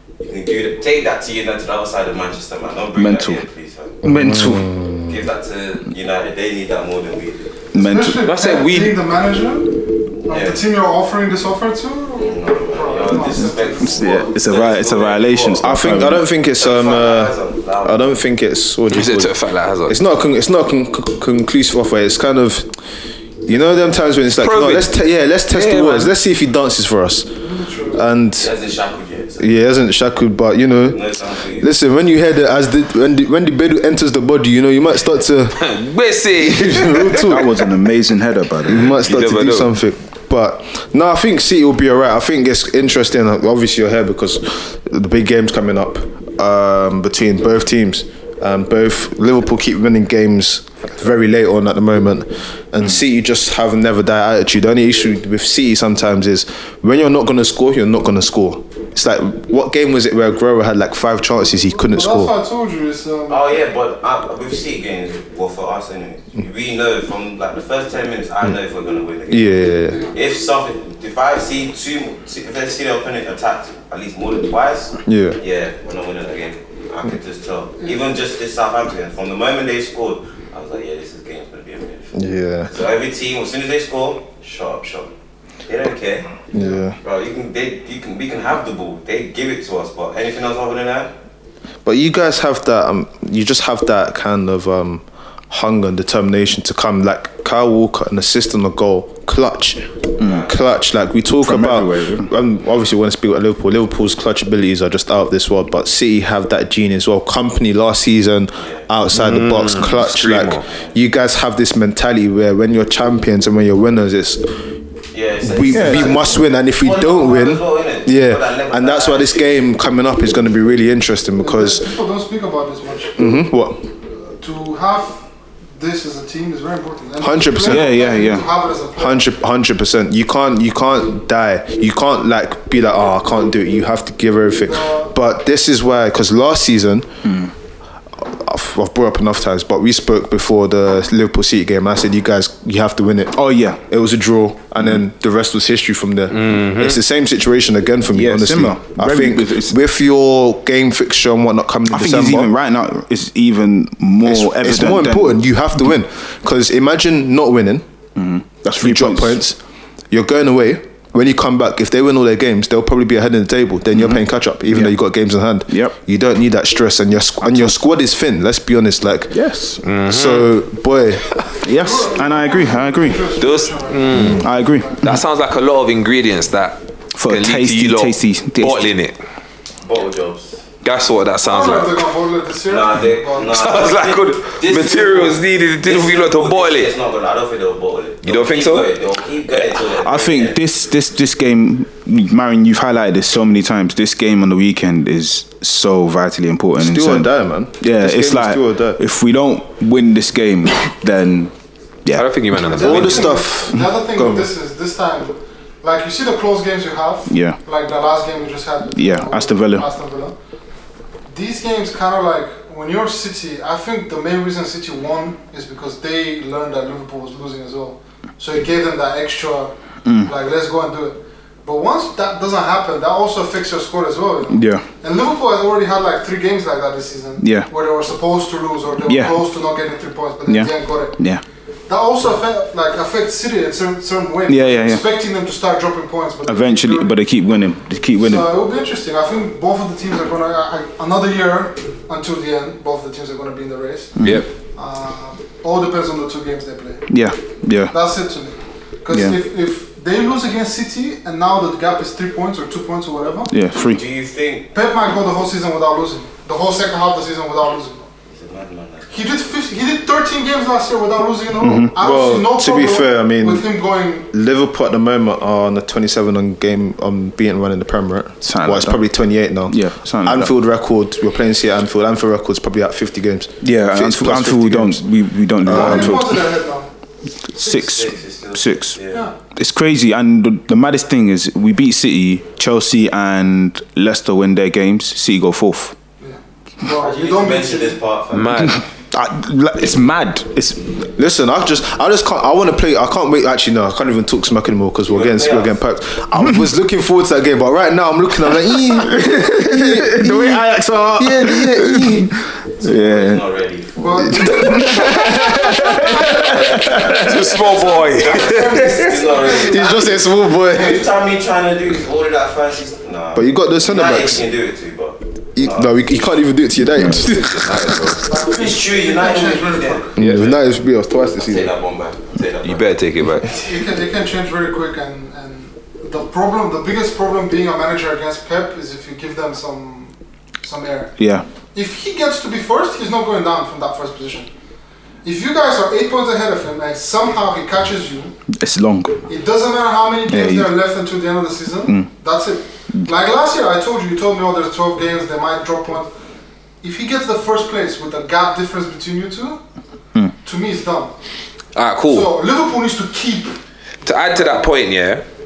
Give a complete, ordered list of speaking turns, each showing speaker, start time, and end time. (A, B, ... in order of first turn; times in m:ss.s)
0:00.2-0:04.0 A
0:02.9-0:03.5 B
0:04.0-0:04.7 B
0:04.1-0:05.2 C
0:05.1-0:07.4 A
0:07.7-0:08.2 B
0:07.8-0:13.9 D
0:08.2-0:09.0 E
0:10.3-0:10.6 A
0:12.2-0:15.7 A
0:13.8-0:16.3 B
0:15.6-0:19.4 C
0:16.6-0:18.2 A
0:18.9-0:20.0 E
0:19.9-0:22.7 C
0:23.4-0:27.3 C
0:24.3-0:24.9 E
0:25.5-0:26.1 E
0:27.4-0:28.0 D
0:27.9-0:28.5 C
0:28.4-0:29.5 A
0:29.4-0:35.7 C
0:30.9-0:31.7 A
0:35.6-0:37.5 E
0:36.3-0:37.6 C
0:37.2-0:39.0 B
0:38.7-1:02.3 C
0:38.8-0:39.7 E
1:01.9-1:03.4 D
1:03.3-1:22.1 A
1:09.3-1:10.1 C
1:15.0-1:15.4 C
1:22.1-1:22.7 C
1:22.7-1:25.1 A
1:25.7-1:26.4 A
1:26.5-1:27.0 C
1:27.0-1:31.1 A
1:31.8-1:54.5 C
1:40.2-1:40.6 A
1:40.2-1:40.5 B
1:41.4-1:42.3 B
1:48.6-1:48.9 A
1:49.1-1:50.6 E
1:50.6-1:50.9 A
1:55.1-1:59.6 A
1:55.4-2:01.9 C
1:55.7-1:56.2 B
2:01.4-2:03.2 D
2:03.2-2:03.8 C
2:04.2-2:05.2 D
2:05.8-2:09.3 D
2:07.2-2:08.0 C
2:07.6-2:08.5 B
2:09.0-2:17.1 C
2:14.7-2:15.1 D
2:17.2-2:17.5 B
2:18.2-2:32.5 C
2:23.3-2:23.8 B
2:26.3-2:27.0 E
2:28.1-2:29.8 B
2:31.9-2:35.4 B
2:34.2-2:37.8 C
2:38.2-2:39.4 B
2:38.8-2:39.6 C
2:40.1-2:49.4 C
2:43.9-2:45.0 B
2:45.7-2:46.0 B
2:49.3-2:49.8 B
2:49.8-2:50.5 E
2:50.1-2:51.3 C
2:51.6-2:53.3 B
2:51.7-2:55.0 D
2:53.4-2:54.5 E
2:54.1-2:54.4 C
2:54.3-2:55.2 B
2:55.0-2:59.2 E
2:57.2-2:58.9 B
2:59.8-3:00.6 A
3:00.8-3:02.0 E
3:01.4-3:03.5 D
3:02.7-3:10.6 A
3:03.5-3:06.9 E
3:08.2-3:08.9 E
3:09.9-3:21.5 B
3:16.8-3:19.0 C
3:22.0-3:22.3 B
3:22.1-3:23.4 E
3:22.7-3:24.5 C
3:22.7-3:30.4 D
3:27.3-3:27.6 B
3:29.0-3:29.9 B
3:31.3-3:51.2 D
3:40.0-3:40.3 B
3:44.5-3:44.8 B
3:47.4-3:47.7 B
3:49.1-3:49.4 B
3:50.5-3:51.4 B
3:51.9-3:57.2 D
3:54.5-3:55.0 B
3:56.5-3:58.5 B
3:58.2-4:04.2 D
4:04.2-4:04.5 B
4:04.8-4:07.1 D
4:07.1-4:07.9 B
4:07.9-4:13.5 D
4:09.1-4:09.4 B
4:13.5-4:14.0 B
4:13.9-4:14.7 A
4:14.7-4:18.1 D
4:18.3-4:19.3 A
4:19.1-4:24.3 D
4:21.6-4:22.0 B
4:22.0-4:23.7 C
4:24.3-4:35.0 C
4:28.4-4:29.1 B
4:29.7-4:30.5 B
4:33.6-4:36.4 B
4:35.6-4:36.3 C
4:35.7-4:36.9 D
4:37.5-4:39.0 B
4:37.6-4:39.3 A
4:39.6-4:46.0 B
4:46.2-4:48.0 D
4:47.0-4:48.8 A
4:48.3-4:48.8 E
4:49.1-4:50.9 B
4:51.2-5:02.3 C
4:55.1-4:55.8 A
4:58.9-5:03.4 B
5:02.8-5:05.4 A
5:04.0-5:04.9 D
5:04.3-5:07.5 B
5:04.4-5:05.1 C
5:05.9-5:07.4 A
5:07.1-5:08.9 E
5:07.6-5:10.0 D
5:08.2-5:16.5 A
5:09.5-5:11.1 C
5:13.3-5:14.5 C
5:15.6-5:18.2 C
5:17.3-5:20.6 A
5:17.7-5:18.0 E
5:18.3-5:20.1 D
5:20.2-5:21.7 C
5:21.4-5:23.8 A
5:22.6-5:23.5 E
5:23.6-5:31.1 D
5:31.2-5:31.5 B
5:31.7-5:34.5 D
5:35.2-5:38.4 D
5:38.6-5:39.2 B
5:39.3-5:46.1 D
5:40.3-5:40.8 B
5:46.8-5:49.6 D
5:50.4-5:51.1 D
5:51.8-5:52.3 E
5:52.1-5:53.6 D
5:54.0-5:55.2 E